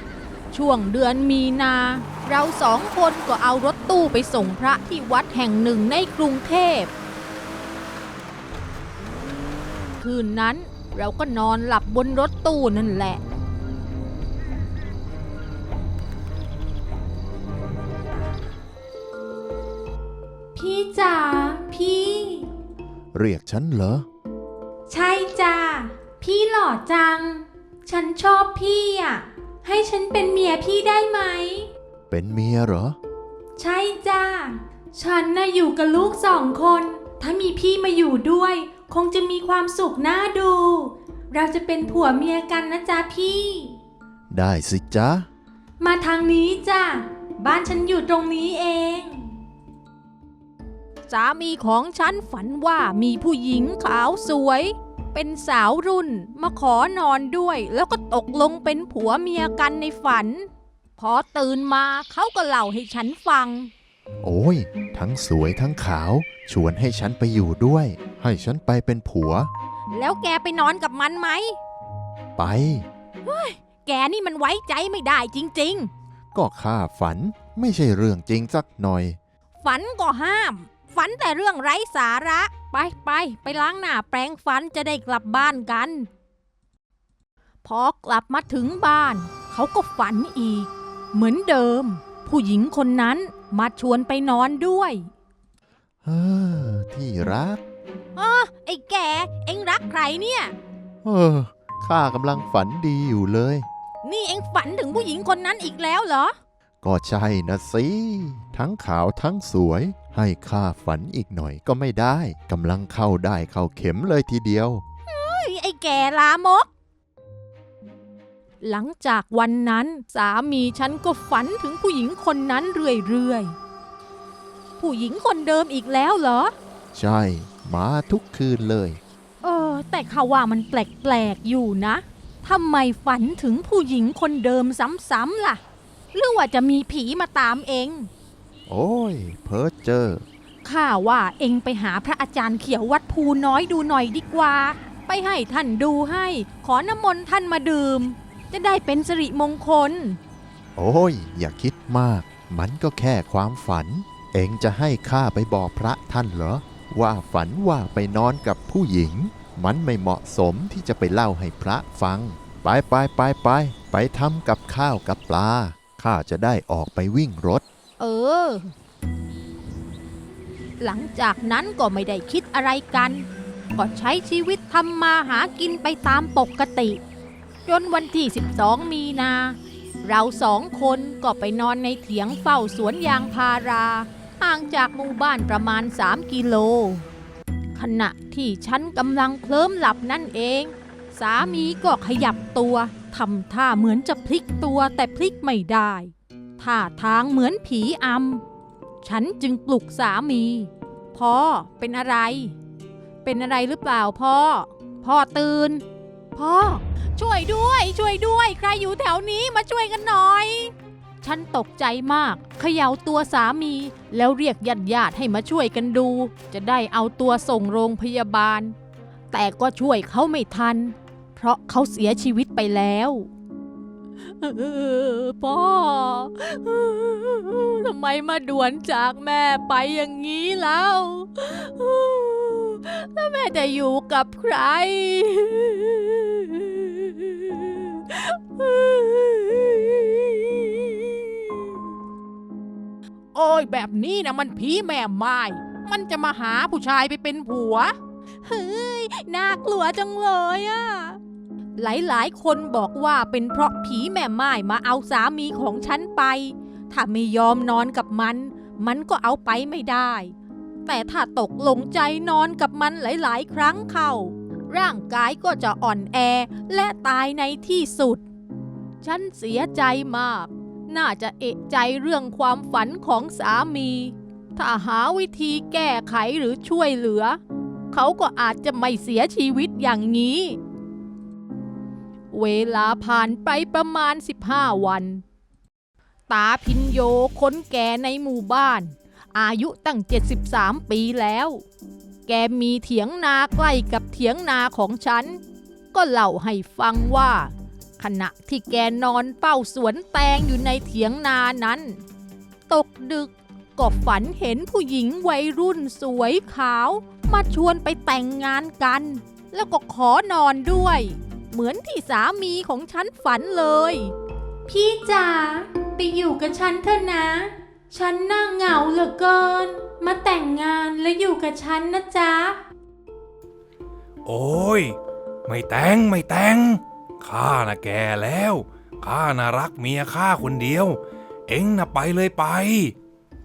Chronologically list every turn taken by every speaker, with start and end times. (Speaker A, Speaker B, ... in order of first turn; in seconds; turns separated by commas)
Speaker A: 0.5-6.9, Speaker A: 10.0-13.2, Speaker A: 20.5-22.5, Speaker B: 23.1-24.1, Speaker A: 24.9-31.7, Speaker B: 32.1-33.0, Speaker A: 33.6-43.8, Speaker B: 44.3-45.3, Speaker A: 45.8-49.3, Speaker A: 51.1-63.7, Speaker B: 64.2-69.5, Speaker A: 69.9-71.6, Speaker B: 72.4-72.8, Speaker A: 73.2-75.9, Speaker B: 76.3-79.2, Speaker A: 79.6-86.1, Speaker A: 87.6-95.1, Speaker B: 96.0-97.6, Speaker A: 98.2-100.5, Speaker B: 101.0-103.7, Speaker A: 104.0-106.3, Speaker B: 106.8-114.8, Speaker A: 115.1-116.7, Speaker A: 118.6-123.5, Speaker A: 124.8-126.5, Speaker B: 126.9-129.0, Speaker A: 129.4-135.6, Speaker A: 136.1-138.1, Speaker B: 138.7-140.2, Speaker A: 140.6-150.2, Speaker B: 150.8-167.6, Speaker A: 168.0-168.7, Speaker A: 170.8-173.2, Speaker A: 173.7-177.0, Speaker A: 177.7-187.1, Speaker A: 187.7-198.4, Speaker A: 199.0-202.6, Speaker A: 203.2-205.8, Speaker A: 206.3-218.7, Speaker A: 219.3-223.3, Speaker A: 224.2-241.6, Speaker A: 243.3-251.2, Speaker A: 251.8-260.3, Speaker A: 260.9-268.2, Speaker A: 269.0-277.4, Speaker A: 277.9-280.6, Speaker A: 282.3-285.2, Speaker A: 286.3-291.6, Speaker A: 292.3-295.4, Speaker A: 295.9-302.0, Speaker A: 302.7-314.1, Speaker A: 314.7-322.6, Speaker C: 324.2-324.9, Speaker C: 325.4-332.9